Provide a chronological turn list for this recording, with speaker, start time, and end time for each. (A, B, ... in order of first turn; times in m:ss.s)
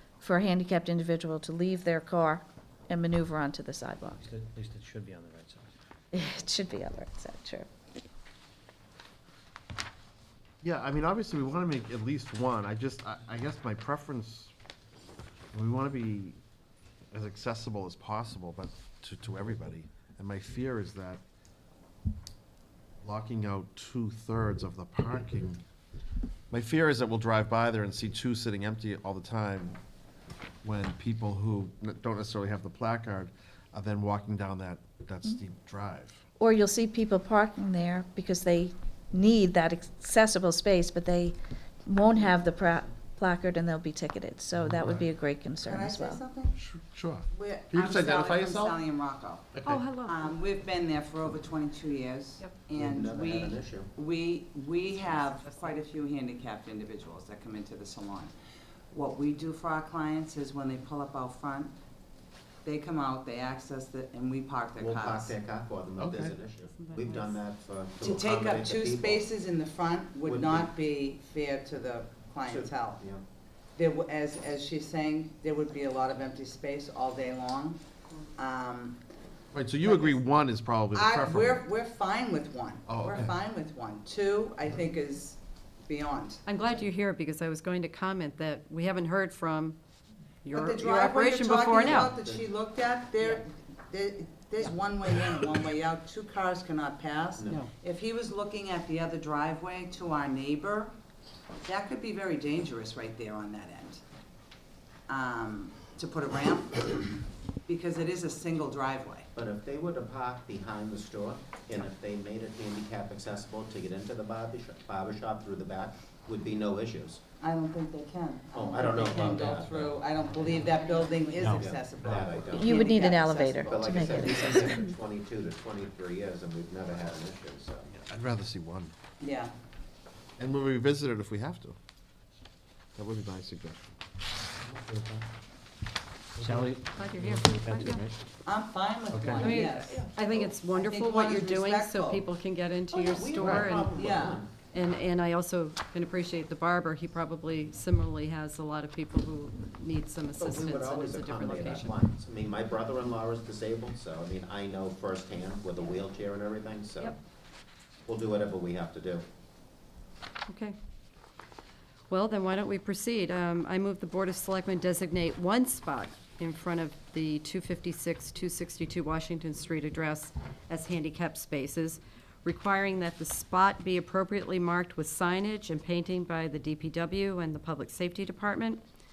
0:00.2-0:04.3 A
0:04.1-0:05.7 B
0:06.1-0:07.7 A
0:10.6-0:14.5 C
0:15.5-0:16.4 C
0:17.1-0:21.2 C
0:23.0-0:25.6 C
0:26.5-0:29.8 C
0:30.6-0:36.2 C
0:36.4-0:46.2 A
0:44.7-0:45.0 C
0:45.6-0:46.6 D
0:46.6-0:48.8 C
0:47.3-0:58.3 D
0:49.5-0:49.8 C
0:49.6-0:50.2 E
0:52.8-0:53.9 F
0:55.0-0:55.8 E
0:58.9-1:01.7 D
1:02.6-1:05.4 D
1:04.8-1:09.3 F
1:06.0-1:06.3 C
1:06.7-1:07.4 E
1:08.0-1:13.0 D
1:10.2-1:10.7 F
1:12.5-1:13.2 F
1:13.8-1:17.8 D
1:18.4-1:19.0 D
1:19.5-1:21.6 C
1:19.8-1:20.2 D
1:20.9-1:26.4 D
1:22.9-1:23.3 C
1:26.4-1:29.8 E
1:30.4-1:32.1 E
1:30.5-1:40.9 D
1:31.8-1:32.4 F
1:41.6-1:44.0 D
1:45.1-1:49.3 D
1:49.3-1:57.2 F
1:57.4-2:03.9 D
1:58.5-2:00.0 F
2:00.7-2:01.4 E
2:01.4-2:02.3 B
2:01.4-2:03.0 F
2:02.4-2:04.9 A
2:03.5-2:07.9 F
2:07.9-2:08.9 C
2:09.2-2:09.5 D
2:10.4-2:11.8 C
2:13.0-2:13.9 C
2:14.7-2:15.2 B
2:16.4-2:18.2 B
2:16.9-2:18.0 E
2:18.4-2:20.0 D
2:19.1-2:19.5 B
2:19.4-2:24.0 E
2:19.5-2:20.5 F
2:20.6-2:22.2 D
2:22.9-2:24.5 F
2:23.4-2:23.7 C
2:23.9-2:24.4 D
2:24.7-2:31.9 E
2:30.4-2:37.2 F
2:38.0-2:39.2 F
2:40.5-2:40.8 E
2:42.1-2:58.8 E